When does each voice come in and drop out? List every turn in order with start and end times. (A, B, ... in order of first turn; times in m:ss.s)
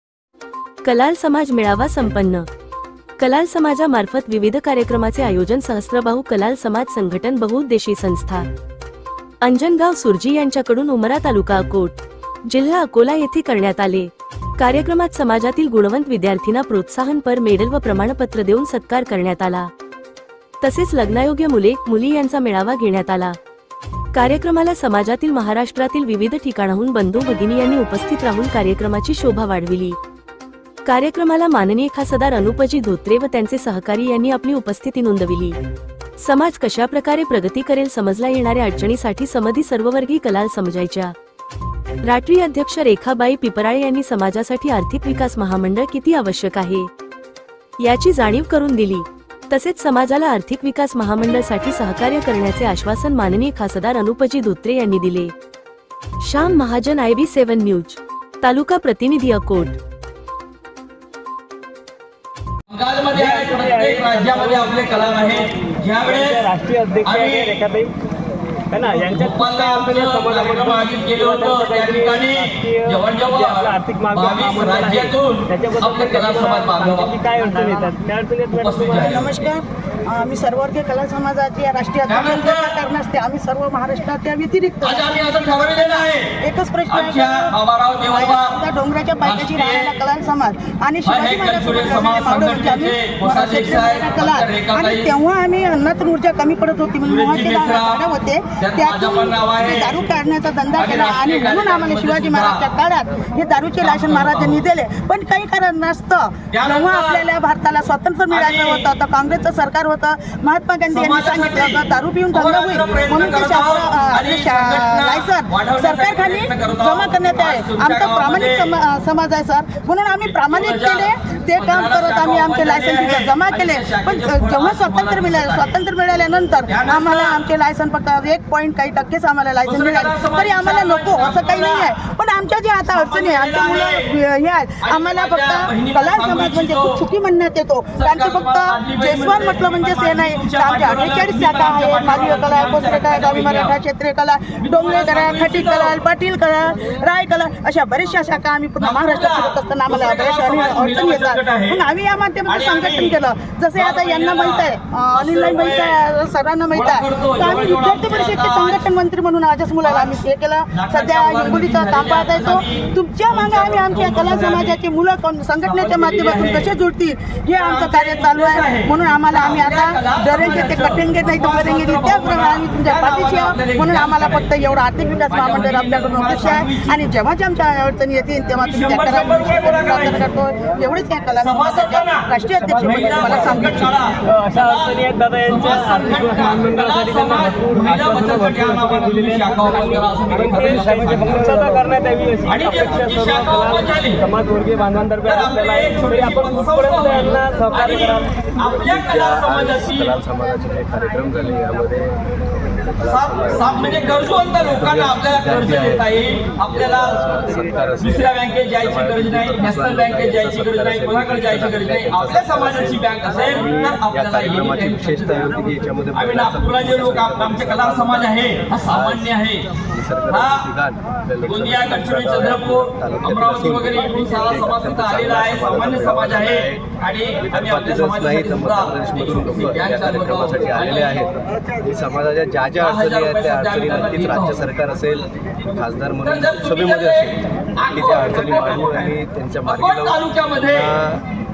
0:00.8-0:02.5 A
0:03.2-0:08.5 A
0:09.4-0:19.7 A
0:20.6-0:23.4 A
0:24.1-0:30.0 A
0:30.8-0:35.6 A
0:36.2-0:41.1 A
0:42.0-0:46.9 A
0:47.8-0:55.3 A
0:56.2-0:59.8 A
1:02.7-1:06.5 B
1:03.2-1:05.5 C
1:06.0-1:07.9 C
1:07.0-1:07.6 B
1:08.7-1:19.2 C
1:08.8-1:17.2 B
1:17.4-1:17.9 D
1:18.5-1:19.4 B
1:18.9-3:04.0 D
1:22.1-1:22.8 B
1:24.8-1:28.6 B
1:29.2-1:30.0 B
1:31.0-1:35.1 B
1:37.0-1:40.0 B
1:40.7-1:42.6 B
1:43.8-1:44.6 B
1:46.5-1:47.2 B
1:48.3-1:48.9 B
1:50.9-1:58.7 B
2:00.4-2:05.8 B
2:06.7-2:07.4 B
2:09.6-2:12.0 B
2:12.9-2:14.1 B
2:14.8-2:17.0 B
2:18.0-2:23.7 B
2:24.6-2:26.0 B
2:28.8-2:31.8 B
2:32.5-2:33.2 B
2:33.8-2:36.0 B
2:36.7-2:38.9 B
2:39.8-2:40.2 B
2:40.7-2:44.8 B
2:45.6-2:46.7 B
2:47.6-2:54.5 B
2:55.3-2:57.1 B
2:58.6-3:00.3 B
3:01.4-3:11.8 B
3:04.2-3:18.3 C
3:12.5-3:14.2 B
3:15.2-3:20.2 B
3:18.6-3:38.3 E
3:23.0-3:27.5 B
3:28.0-3:35.5 B
3:36.1-3:40.7 B
3:38.8-3:46.9 E
3:41.4-3:51.3 B
3:47.4-4:01.3 E
3:52.8-3:54.6 B
3:56.2-4:01.0 B